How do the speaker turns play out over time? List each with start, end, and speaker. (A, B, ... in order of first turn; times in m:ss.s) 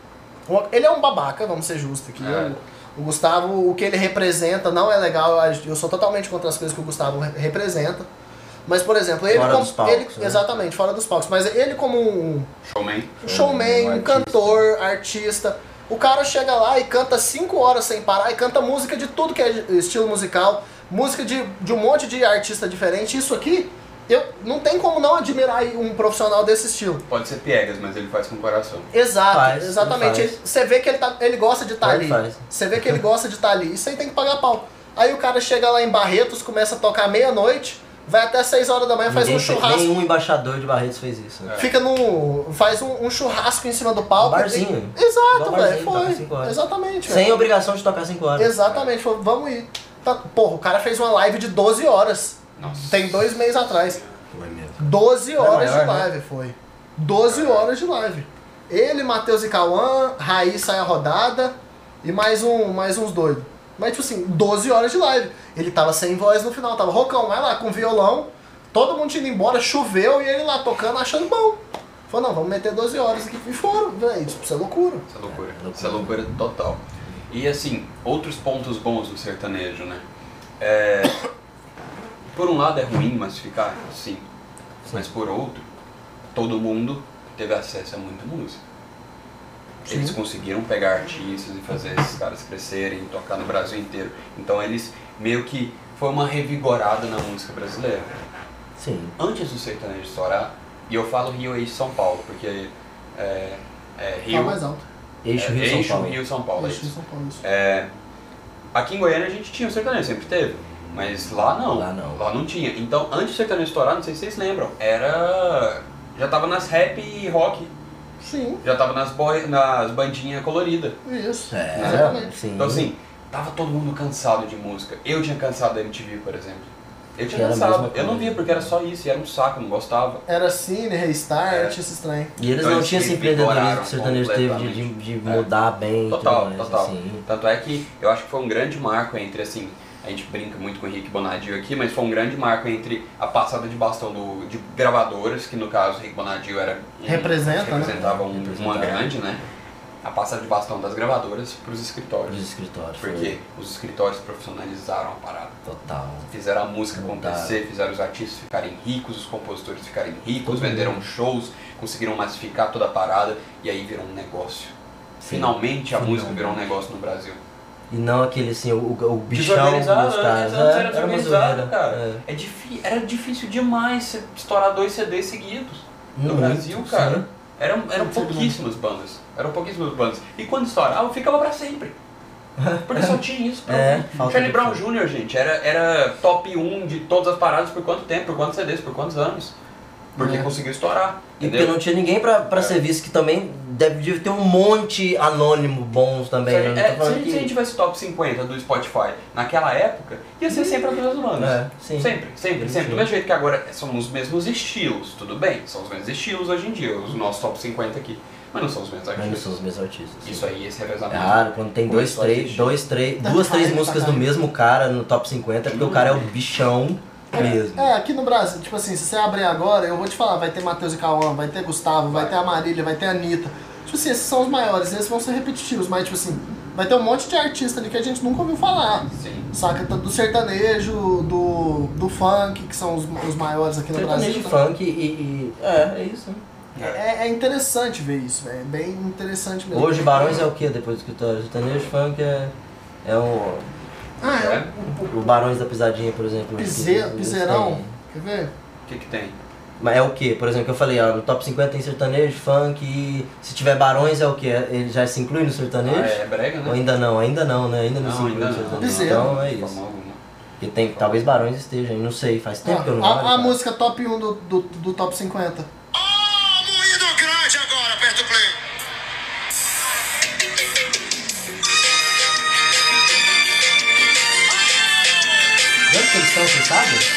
0:00.5-0:08.1 A
0:02.2-0:02.6 B
0:08.7-0:12.5 A
0:09.3-0:10.5 C
0:12.6-0:13.2 B
0:13.2-0:27.0 A
0:13.2-0:14.6 C
0:27.1-0:28.9 B
0:28.9-0:39.9 A
0:29.3-0:30.4 C
0:31.8-0:32.4 C
0:39.1-0:41.6 C
0:41.4-0:41.7 B
0:41.6-0:47.4 A
0:44.2-0:48.6 C
0:48.4-0:54.0 A
0:52.6-0:54.2 B
0:54.3-0:56.1 C
0:54.8-1:15.0 A
0:57.3-0:57.7 B
1:15.1-1:20.0 B
1:15.3-1:16.2 C
1:20.6-1:21.2 B
1:22.3-1:24.2 B
1:24.9-1:25.7 B
1:26.3-1:28.6 B
1:29.8-1:38.1 B
1:29.9-1:30.2 A
1:38.8-1:39.2 C
1:39.2-1:44.6 B
1:44.3-1:44.8 A
1:45.2-1:46.2 C
1:45.4-1:46.9 B
1:46.6-1:47.4 A
1:47.4-1:47.9 B
1:48.7-1:57.7 B
1:51.7-1:52.3 C
1:58.2-1:58.6 A
1:58.6-2:01.0 B
2:01.0-2:02.3 A
2:01.5-2:02.9 C
2:01.7-2:10.2 B
2:07.3-2:08.7 C
2:10.3-2:12.3 A
2:11.5-2:11.7 B
2:12.4-2:17.2 C
2:12.6-2:15.5 B
2:16.1-2:29.4 B
2:27.0-2:28.0 A
2:27.8-2:29.1 C
2:30.0-2:32.4 B
2:32.3-2:33.3 C
2:33.0-2:35.6 B
2:35.6-2:36.3 C
2:36.3-2:44.7 B
2:36.9-2:37.6 C
2:40.4-2:41.0 C
2:45.2-2:46.6 C
2:45.3-2:47.4 B
2:47.9-2:52.2 C
2:49.3-3:01.9 B
2:56.2-2:57.2 C
2:58.0-2:58.6 A
3:02.6-3:04.8 C
3:02.9-3:09.5 B
3:10.2-3:11.7 B
3:10.2-3:10.5 A
3:11.4-3:17.5 C
3:16.5-3:29.6 B
3:21.4-3:23.1 C
3:29.1-3:30.5 C
3:30.2-3:32.8 B
3:31.1-3:37.9 C
3:33.2-3:34.2 A
3:35.7-3:36.3 B
3:37.3-3:54.6 A
3:42.1-3:42.3 B
3:49.1-3:49.5 B
3:53.9-3:56.4 C
3:56.8-3:57.0 B
3:56.8-4:00.5 A
3:59.7-4:02.5 C
4:03.0-4:03.6 C
4:04.2-4:05.3 A
4:04.2-4:04.7 B
4:05.0-4:07.9 C
4:06.6-4:08.5 A
4:08.8-4:09.4 B
4:09.8-4:19.8 C
4:15.8-4:16.8 B
4:18.0-4:20.2 B
4:18.8-4:19.3 A
4:20.6-4:23.6 C
4:21.0-4:21.3 B
4:22.6-4:25.7 A
4:25.9-4:28.6 D
4:35.9-4:37.0 C